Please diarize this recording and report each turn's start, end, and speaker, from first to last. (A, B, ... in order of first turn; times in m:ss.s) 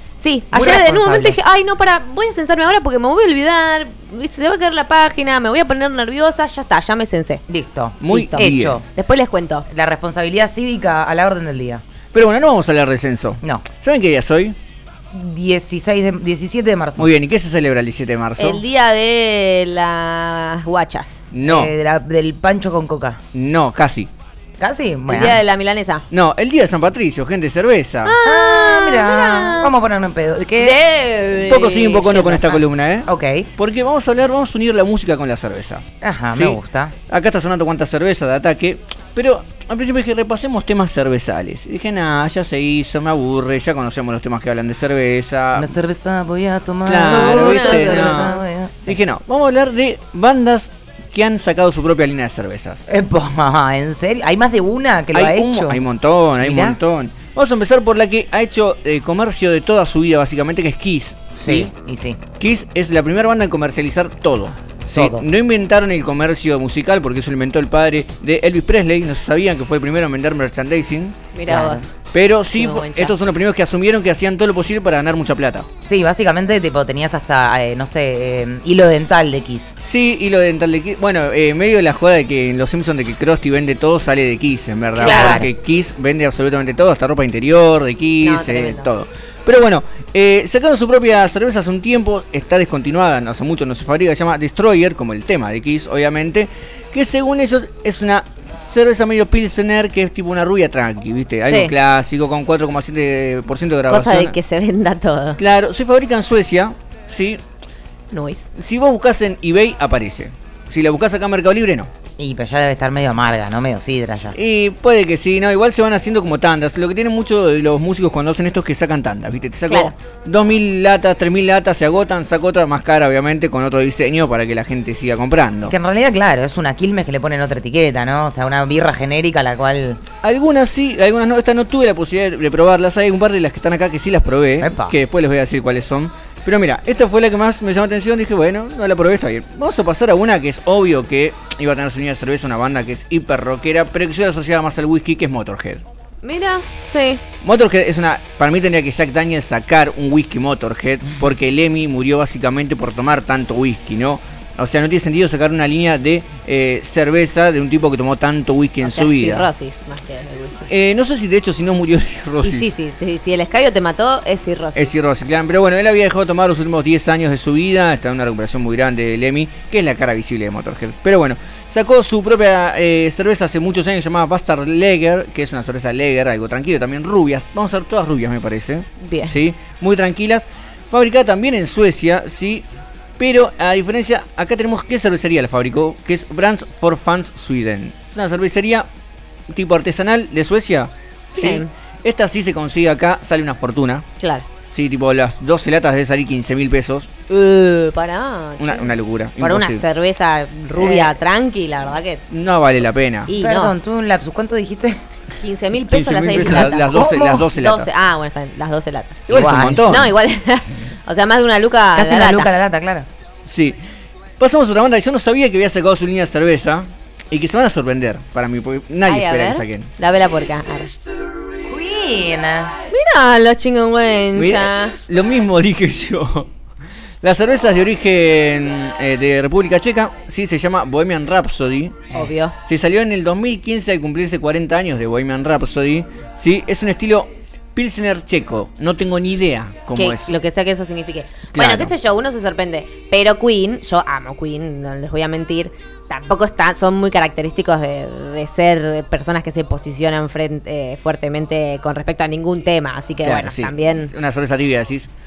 0:00.2-0:07.4 A
0:00.5-0:01.4 B
0:07.5-0:08.8 B
0:08.0-0:08.8 C
0:08.1-0:09.6 A
0:09.7-0:11.8 B
0:12.1-0:14.6 C
0:15.1-0:17.0 B
0:17.0-0:18.6 C
0:18.4-0:21.2 A
0:21.3-0:21.7 C
0:21.5-0:23.2 B
0:23.3-0:24.1 C
0:24.6-0:25.4 B
0:25.1-0:26.0 A
0:26.1-0:28.2 C
0:28.0-0:29.7 A
0:28.2-0:30.8 B
0:30.6-0:32.4 A
0:31.4-0:45.8 C
0:32.1-0:33.5 B
0:36.0-0:36.9 B
0:45.6-0:48.7 B
0:46.8-0:52.8 C
0:47.0-0:48.4 A
0:52.9-0:55.8 B
0:55.1-1:01.7 C
0:56.4-0:56.7 B
1:01.4-1:02.2 B
1:02.3-1:11.3 C
1:05.0-1:05.2 B
1:11.3-1:11.9 A
1:11.5-1:11.8 B
1:12.0-1:15.6 C
1:12.5-1:13.1 A
1:15.8-1:19.7 B
1:19.8-1:44.3 C
1:25.0-1:25.4 A
1:25.0-1:25.5 B
1:28.2-1:28.9 A
1:41.5-1:41.7 A
1:43.9-1:45.4 A
1:45.4-1:47.4 C
1:48.1-1:48.5 A
1:48.5-1:51.9 C
1:52.2-1:54.3 B
1:54.3-2:05.8 C
1:59.7-1:59.9 A
2:05.7-2:10.0 B
2:10.2-2:25.8 C
2:14.6-2:14.9 B
2:26.2-2:27.2 A
2:27.4-2:39.5 C
2:38.8-2:40.7 A
2:40.6-2:42.7 C
2:42.4-2:44.9 A
2:44.8-3:02.7 C
2:59.0-2:59.4 A
3:03.2-3:08.9 C
3:09.5-3:14.0 C
3:11.3-3:11.7 A
3:14.2-3:14.5 A
3:14.7-3:17.1 C
3:17.3-3:22.2 A
3:18.6-3:19.8 C
3:20.8-3:21.2 C
3:22.3-3:23.3 C
3:23.3-3:23.7 A
3:23.4-3:25.0 B
3:25.4-3:32.5 A
3:25.8-3:27.9 C
3:26.4-3:27.4 B
3:29.3-3:30.1 C
3:29.3-3:29.9 B
3:32.0-3:33.1 B
3:33.4-3:33.8 C
3:34.4-3:39.9 C
3:39.0-3:40.9 A
3:41.6-3:42.7 B
3:42.9-3:45.0 A
3:44.3-3:46.5 C
3:47.2-3:52.1 C
3:52.1-3:52.5 A
3:52.6-4:00.3 C
3:59.9-4:14.1 A
4:01.5-4:01.9 C
4:13.2-4:15.1 C